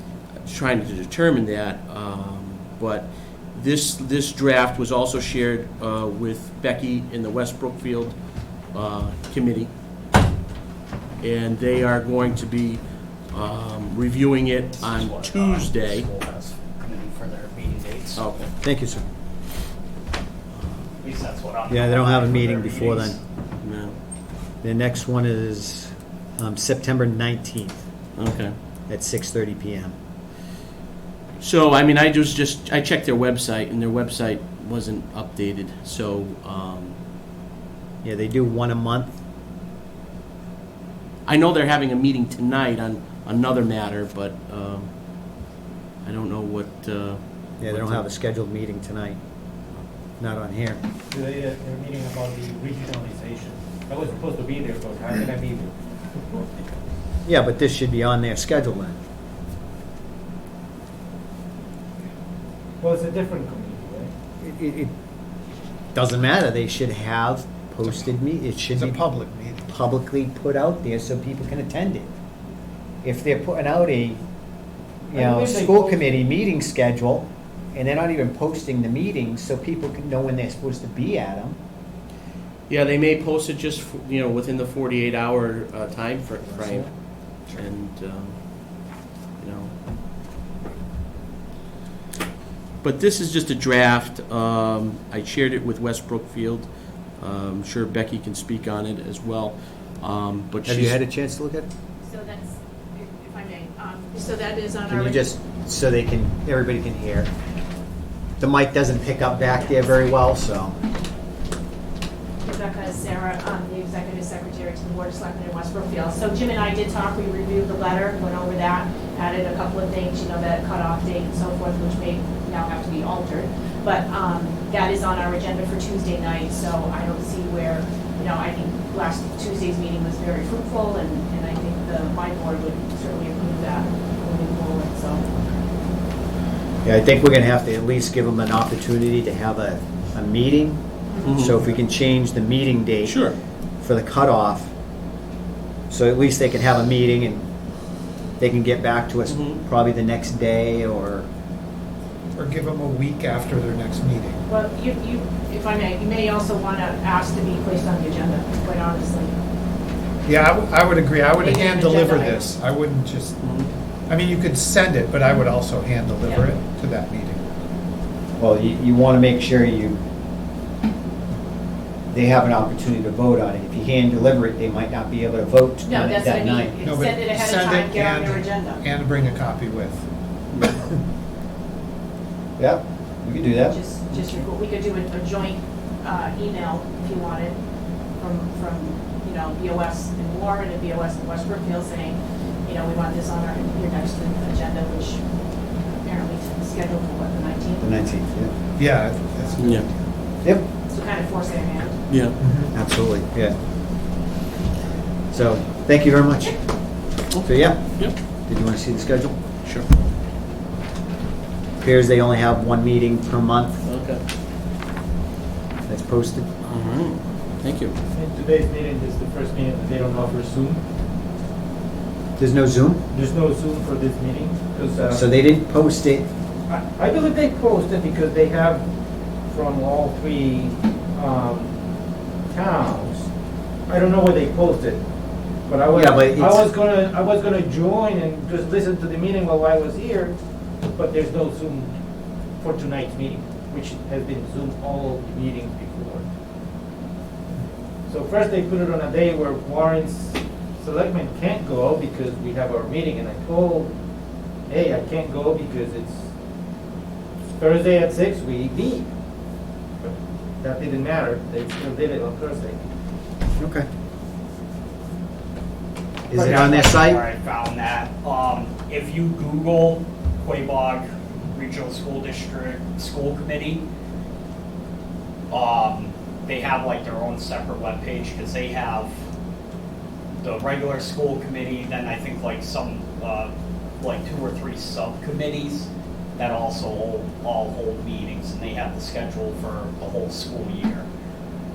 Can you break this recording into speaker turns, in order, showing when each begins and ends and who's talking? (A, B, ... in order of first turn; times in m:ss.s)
0:00.4-0:08.2 A
0:08.7-0:09.7 A
0:11.2-0:16.1 A
0:14.8-0:18.2 B
0:18.1-0:18.5 A
0:18.6-0:19.0 C
0:20.6-0:20.8 A
0:21.0-0:23.2 B
0:21.7-0:23.2 C
0:23.6-0:24.0 A
0:24.6-0:27.8 C
0:28.2-0:28.6 A
0:28.9-0:29.9 C
0:31.4-0:37.0 A
0:38.0-0:39.2 C
0:41.2-0:44.9 A
0:46.0-0:48.0 A
0:47.6-0:49.2 C
0:50.2-0:50.8 C
0:51.1-0:55.7 D
0:57.2-0:59.0 C
1:02.8-1:04.1 D
1:04.4-1:04.9 C
1:05.9-1:09.0 C
1:07.8-1:08.1 E
1:08.7-1:09.7 E
1:09.7-1:12.1 C
1:13.0-1:14.2 C
1:15.1-1:16.2 D
1:15.1-1:21.6 C
1:22.7-1:26.9 A
1:26.6-1:26.9 C
1:27.5-1:28.4 A
1:29.4-1:29.7 A
1:32.8-1:41.0 A
1:40.6-1:41.7 C
1:42.0-1:45.3 F
1:44.9-1:47.3 C
1:48.4-1:50.8 C
1:49.5-1:49.9 F
1:52.4-2:15.2 F
2:16.8-2:23.3 C
2:21.2-2:21.7 A
2:23.0-2:23.4 A
2:23.8-2:24.7 C
2:25.9-2:27.4 C
2:28.4-2:31.3 C
2:29.3-2:29.6 A
2:32.4-2:34.4 E
2:34.5-2:39.4 F
2:40.2-2:43.4 E
2:41.4-2:42.5 F
2:43.4-2:43.7 A
2:44.1-2:47.4 E
2:48.4-2:50.0 C
2:52.1-2:56.8 C
2:55.8-2:58.8 F
2:56.8-3:00.0 E
3:00.6-3:00.9 E
3:02.6-3:03.8 C
3:03.6-3:07.6 F
3:08.2-3:15.2 F
3:15.8-3:18.1 F
3:17.8-3:18.5 C
3:18.8-3:20.0 E
3:19.6-3:19.9 A
3:20.9-3:22.0 F
3:22.1-3:22.4 A
3:22.4-3:22.7 E
3:22.7-3:23.5 C
3:25.3-3:26.6 C
3:27.3-3:28.2 A
3:27.4-3:28.0 C
3:28.5-3:29.4 C
3:31.8-3:33.8 C
3:33.8-3:34.2 A
3:35.9-3:36.5 C
3:36.6-3:37.9 A
3:38.1-3:40.8 D
3:42.4-3:43.0 C
3:43.1-3:45.3 D
3:45.1-3:46.3 C
3:46.7-3:48.8 D
3:49.5-3:51.7 D
3:52.5-3:53.3 D
3:53.9-3:55.0 D
3:55.7-4:00.3 D
3:55.9-3:56.6 C
4:00.9-4:01.9 D
4:02.6-4:06.2 D
4:08.1-4:13.9 D
4:14.7-4:16.3 D
4:17.5-4:19.1 D
4:20.0-4:22.8 D
4:23.6-4:23.8 C
4:26.3-4:27.2 C
4:26.3-4:27.0 D
4:26.4-4:33.8 B
4:35.5-4:39.1 B
4:40.4-4:51.0 B